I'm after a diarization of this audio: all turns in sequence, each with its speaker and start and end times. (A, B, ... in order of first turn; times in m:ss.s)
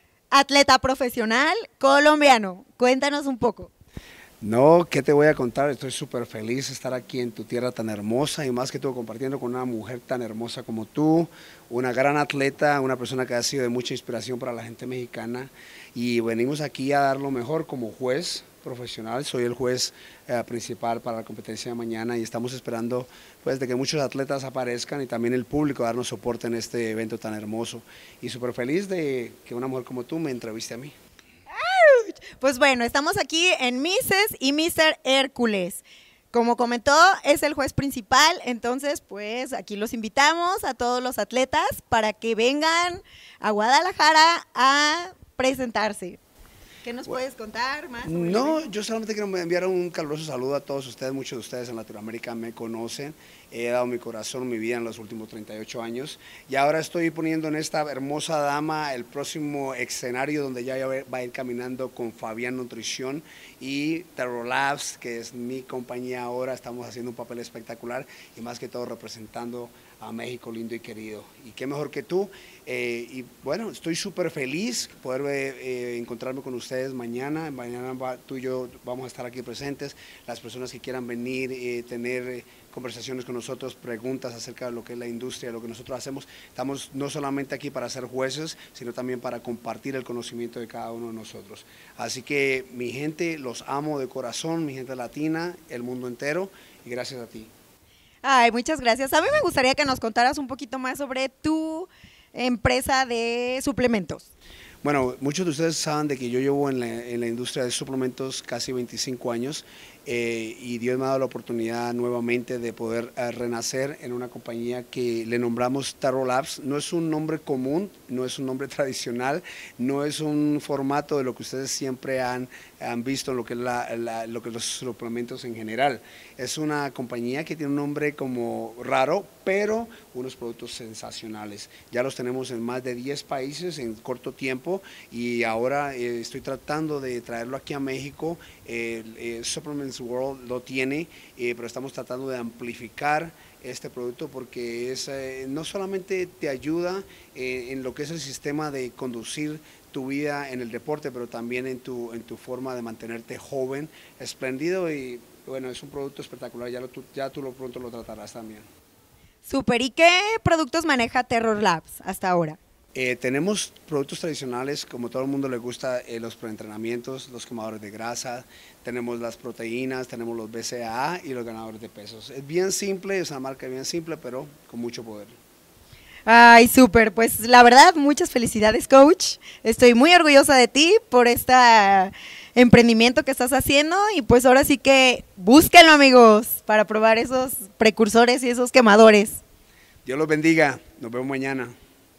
0:00.3-0:03.7 A
0:04.4-0:30.9 B
0:31.5-0:46.2 A
0:46.8-0:48.7 A
0:48.0-1:37.5 B
1:38.2-1:44.3 A
1:44.8-2:38.6 B
2:39.4-2:42.6 A
2:42.9-2:55.4 B
2:56.3-3:09.4 A
3:10.0-3:11.7 B